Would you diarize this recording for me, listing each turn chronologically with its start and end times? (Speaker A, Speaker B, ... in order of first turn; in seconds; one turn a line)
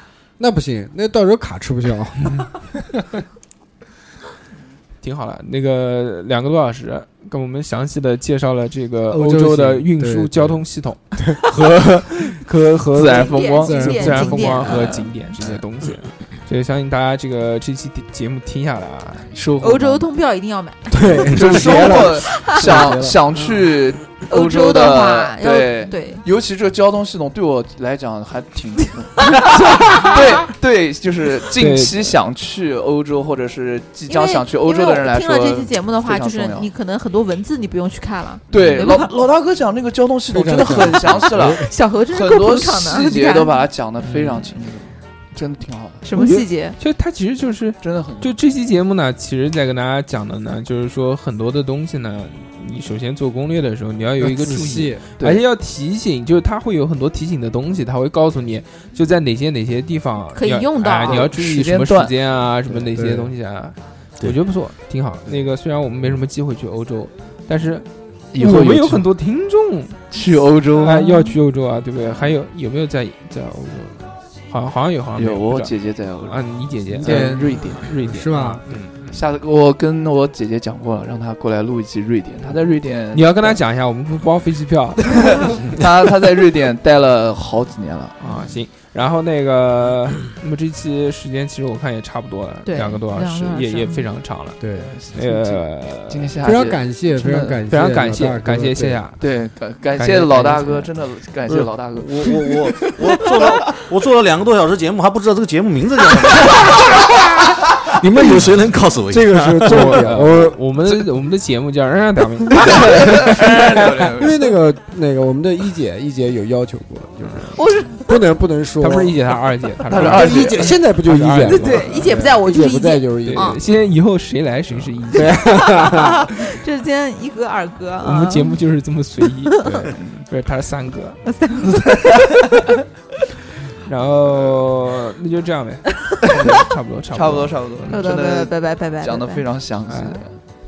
Speaker A: 0.4-2.5
Speaker B: 5.0-19.3
Speaker A: 9.1-10.6
Speaker A: 11.2-11.4
Speaker C: 12.9-15.6
Speaker D: 13.2-15.0
Speaker A: 13.6-14.7
Speaker C: 19.3-20.1
Speaker D: 19.6-21.7
Speaker A: 20.9-23.2
Speaker C: 21.3-36.7
Speaker D: 22.3-22.8
Speaker D: 24.3-26.2
Speaker D: 29.2-30.5
Speaker B: 31.6-32.1
Speaker D: 34.1-39.1
Speaker C: 38.5-46.1
Speaker B: 38.5-38.9
Speaker A: 40.3-41.7
Speaker D: 41.6-43.7
Speaker B: 44.0-44.5
Speaker D: 46.0-46.8
Speaker B: 46.1-70.0
Speaker C: 47.8-48.3
Speaker A: 54.2-55.1
Speaker D: 60.3-61.3
Speaker C: 61.1-62.1
Speaker A: 62.7-63.3
Speaker C: 68.3-69.1
Speaker C: 70.1-71.1
Speaker B: 70.8-79.2
Speaker D: 70.8-71.3
Speaker C: 75.2-76.5
Speaker C: 77.0-77.8
Speaker A: 77.0-78.6
Speaker C: 79.1-83.6
Speaker B: 83.1-85.7
Speaker C: 85.1-88.2
Speaker B: 88.2-94.6
Speaker D: 92.7-94.1
Speaker A: 94.6-94.9
Speaker C: 94.8-97.6
Speaker B: 95.1-96.4
Speaker A: 96.4-99.0
Speaker B: 97.7-99.3
Speaker C: 99.2-103.8
Speaker B: 100.0-100.9
Speaker E: 101.5-110.0
Speaker A: 108.0-108.5
Speaker A: 109.1-110.6
Speaker B: 109.6-114.1
Speaker C: 112.6-114.5
Speaker A: 112.7-113.3
Speaker A: 114.2-119.2
Speaker B: 117.3-117.5
Speaker D: 117.5-118.2
Speaker B: 118.8-122.0
Speaker C: 119.9-120.8
Speaker A: 120.0-123.6
Speaker D: 121.5-123.6
Speaker B: 123.2-125.4
Speaker A: 125.1-126.3
Speaker D: 125.8-128.5
Speaker B: 128.0-129.6
Speaker D: 129.5-129.8
Speaker A: 129.6-129.9
Speaker C: 129.9-130.2
Speaker B: 130.3-131.2
Speaker D: 131.2-131.8
Speaker C: 131.8-132.7
Speaker B: 133.8-138.1
Speaker C: 136.2-140.4
Speaker D: 137.9-139.5
Speaker B: 139.9-140.2